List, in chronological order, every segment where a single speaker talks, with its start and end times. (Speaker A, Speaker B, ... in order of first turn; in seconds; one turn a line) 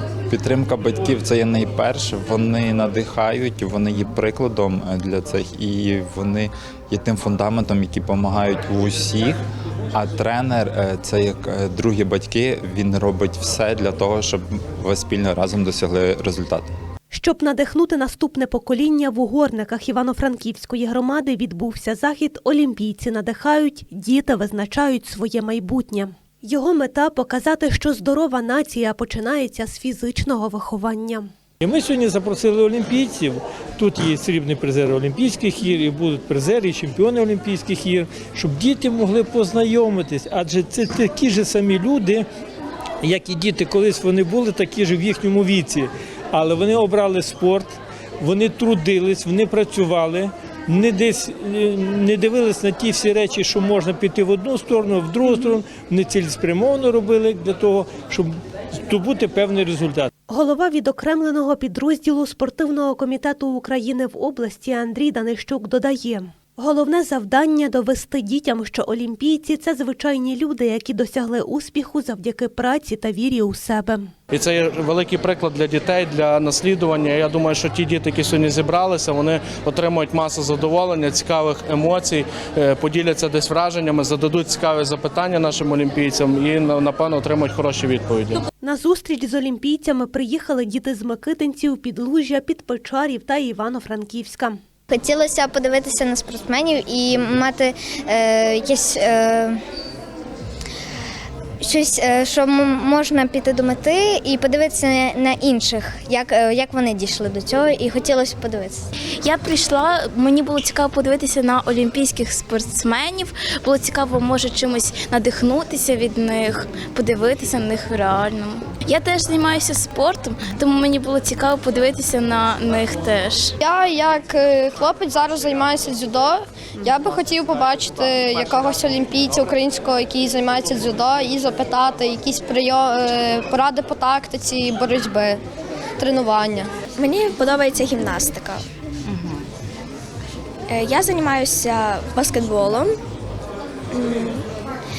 Speaker A: 0.3-9.4
Speaker A: 9.9-16.7
Speaker B: 17.1-31.3
Speaker C: 31.6-42.2
Speaker C: 43.0-58.3
Speaker C: 58.9-60.1
Speaker B: 60.3-74.1
Speaker D: 74.3-88.4
Speaker B: 88.6-94.6
Speaker E: 94.9-99.6
Speaker E: 101.6-108.9
Speaker F: 109.2-123.5
Speaker G: 123.6-135.4
Speaker G: 136.0-136.7
Speaker H: 136.9-138.7
Speaker H: 140.7-143.0
Speaker H: 143.9-144.5